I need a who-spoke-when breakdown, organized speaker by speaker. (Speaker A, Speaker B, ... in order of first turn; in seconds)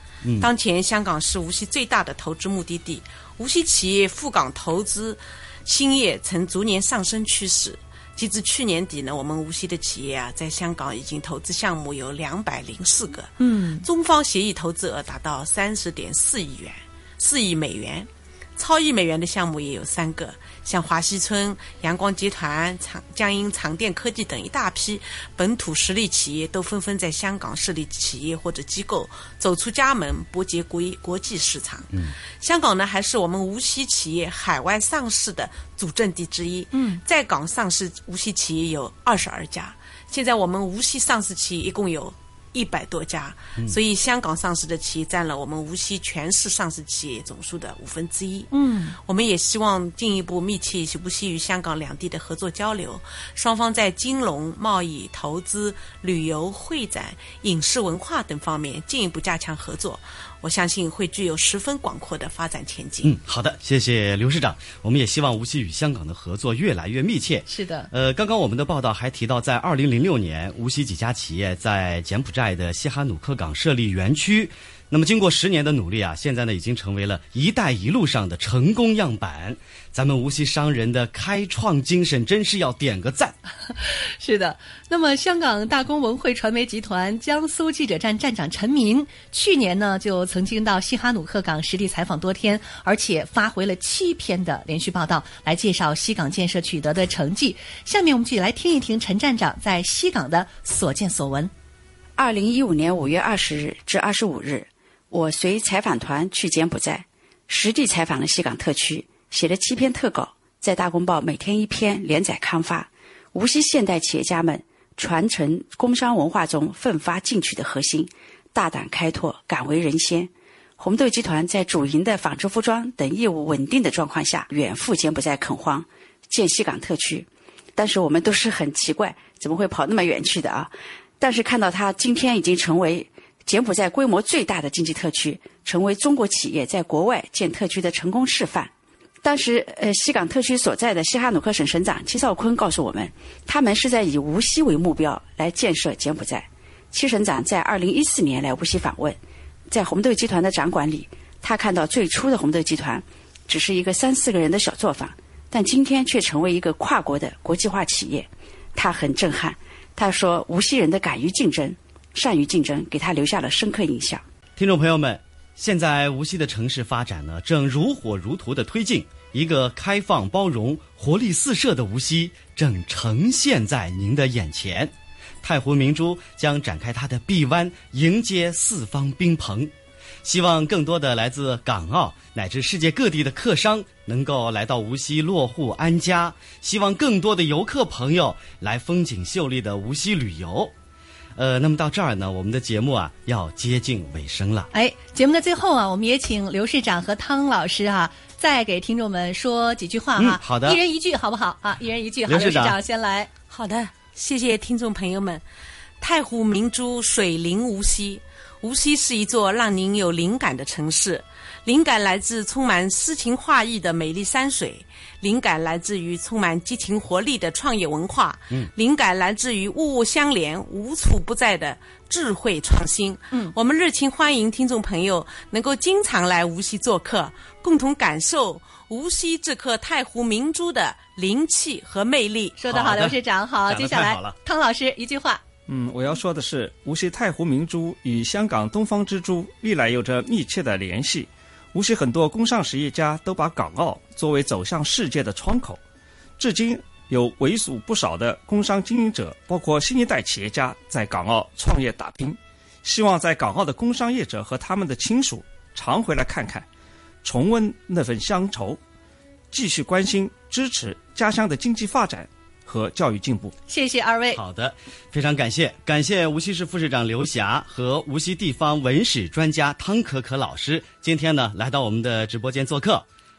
Speaker A: 0.2-0.5, 63.0-83.4, 164.6-179.7, 180.2-190.7, 191.4-194.7, 200.2-200.8, 202.3-202.8, 232.7-234.3, 264.3-273.1
Speaker B: 0.4-13.3, 13.8-48.5, 49.0-63.1, 203.5-205.4, 206.0-232.6
Speaker C: 13.4-13.8, 36.7-37.0, 48.5-49.0, 67.5-67.9, 83.8-101.5, 194.7-203.3, 232.6-235.4, 263.7-264.4
Speaker D: 102.2-138.7, 139.2-164.2
Speaker E: 235.7-245.8, 246.4-256.6, 257.2-258.8, 259.5-263.5